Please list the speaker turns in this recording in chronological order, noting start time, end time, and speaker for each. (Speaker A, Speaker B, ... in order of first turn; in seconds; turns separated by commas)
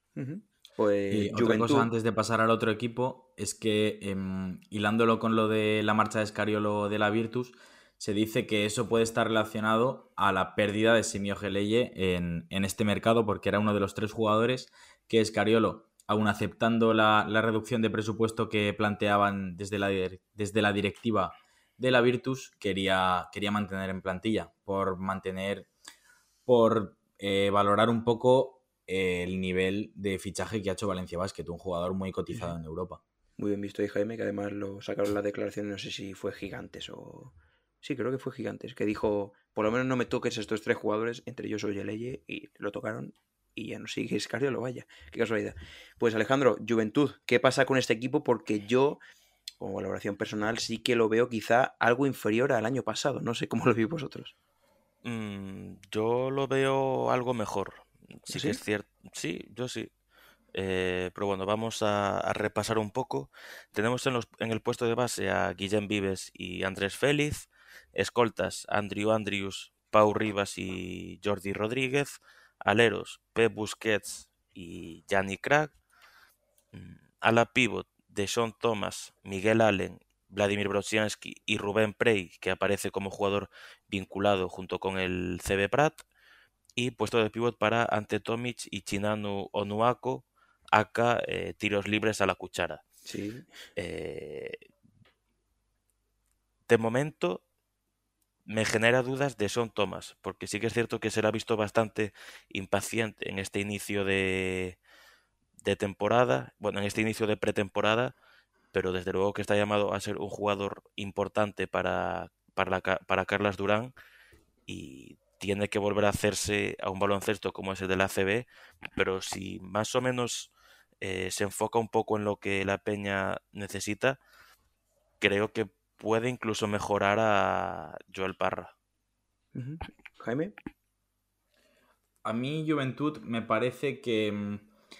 Speaker A: 0.2-1.9, Speaker B: 1.1-25.7, Speaker B: 26.5-33.0, Speaker A: 33.4-49.0, Speaker A: 49.6-54.3, Speaker C: 55.0-59.9, Speaker A: 58.3-58.6, Speaker C: 60.5-75.7, Speaker C: 76.7-86.0, Speaker C: 86.8-92.8, Speaker A: 93.0-93.5, Speaker C: 93.8-94.6, Speaker C: 96.7-97.4, Speaker C: 98.5-104.8, Speaker C: 105.6-108.1, Speaker C: 108.7-113.9, Speaker C: 114.7-120.5, Speaker C: 121.0-124.2, Speaker C: 125.2-128.7, Speaker A: 129.6-130.5, Speaker B: 132.2-134.7